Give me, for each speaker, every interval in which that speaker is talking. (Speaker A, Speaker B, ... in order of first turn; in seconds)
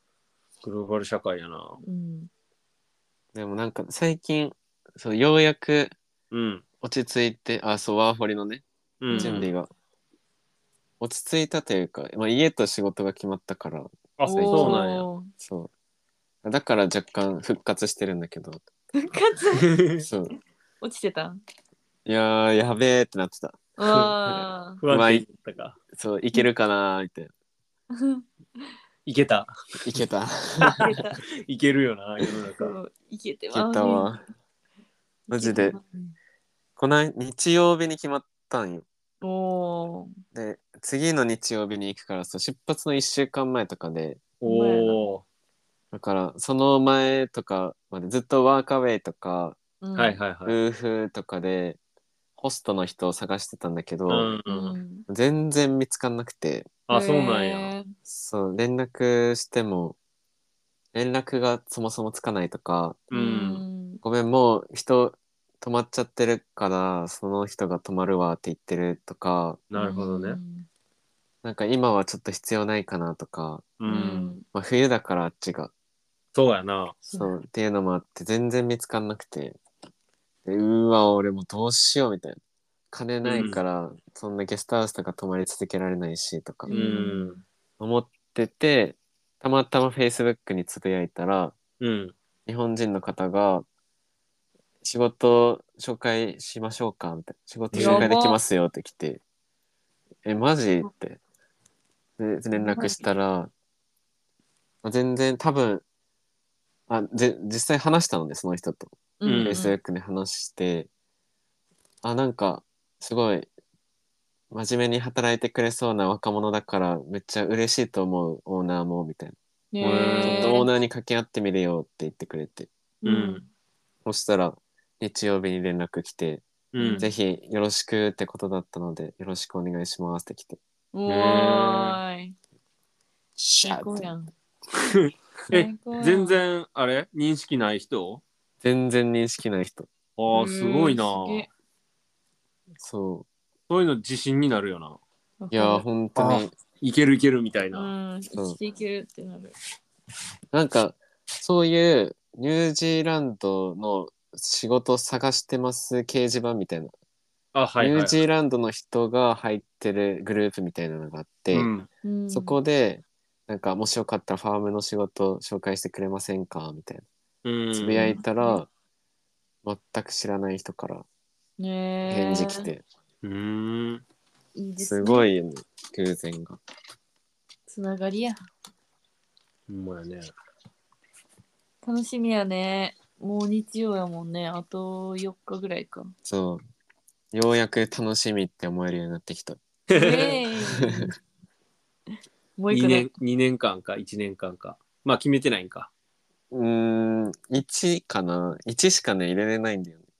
Speaker A: 0.6-1.8, 6.3-6.6, 9.0-9.5, 14.2-15.1, 19.6-20.1, 24.8-25.8, 29.1-29.5, 31.4-32.7, 44.4-45.2, 50.0-50.6, 54.1-54.8, 56.9-57.7, 63.1-63.6, 69.7-70.4, 73.8-74.3, 76.3-77.0, 83.2-83.6, 86.7-87.3, 91.8-92.1, 97.7-98.1, 109.2-109.6, 119.8-120.6, 123.0-123.4, 126.7-127.1, 131.1-132.0, 134.8-138.2, 140.2-141.5, 143.7-145.0, 146.2-147.9, 157.5-158.2, 161.5-161.9, 167.4-168.1, 173.2-174.0, 179.7-180.3, 189.9-190.4, 192.7-195.9
Speaker B: 1.8-2.3, 9.1-9.5, 14.2-15.3, 18.9-19.7, 20.8-21.4, 23.8-24.8, 27.9-28.2, 30.7-31.2, 32.6-34.1, 35.3-36.1, 39.2-40.1, 44.4-45.0, 49.8-50.2, 54.5-55.0, 56.9-57.9, 63.1-64.0, 69.7-70.7, 73.8-74.4, 77.0-77.3, 86.7-87.4, 97.7-98.4, 102.5-102.9, 109.2-109.8, 119.7-120.7, 123.0-123.5, 126.8-127.1, 130.9-132.3, 133.6-134.3, 135.5-136.4, 140.3-141.5, 145.4-145.8, 147.7-149.5, 162.0-162.6, 167.9-168.6, 171.6-172.7, 174.5-175.3, 177.7-178.4, 181.8-186.1, 189.9-191.1, 192.6-193.1
Speaker C: 3.3-5.9, 6.8-9.7, 11.0-14.8, 15.4-15.7, 16.4-18.6, 20.0-20.3, 22.0-23.6, 24.3-25.2, 25.9-27.3, 29.8-30.9, 33.5-34.2, 35.3-35.8, 36.8-38.8, 40.3-44.3, 45.9-49.6, 50.5-51.8, 52.4-54.3, 55.1-56.7, 58.0-60.0, 60.9-63.0, 64.0-69.6, 71.4-73.7, 74.5-75.7, 77.1-79.6, 80.4-82.4, 82.9-86.8, 87.8-91.5, 92.5-93.6, 94.8-99.2, 100.2-101.2, 102.2-103.5, 104.8-105.8, 106.9-110.9, 112.0-113.5, 114.5-119.3, 120.2-122.7, 124.0-126.4, 127.0-130.6, 133.5-134.0, 138.6-139.9, 142.8-143.3, 145.5-146.5, 150.5-156.9, 157.8-161.7, 162.3-167.0, 167.7-168.7, 169.6-171.1, 172.1-172.8, 174.8-176.6, 186.2-186.6, 187.3-189.6, 190.8-191.1, 196.5-200.0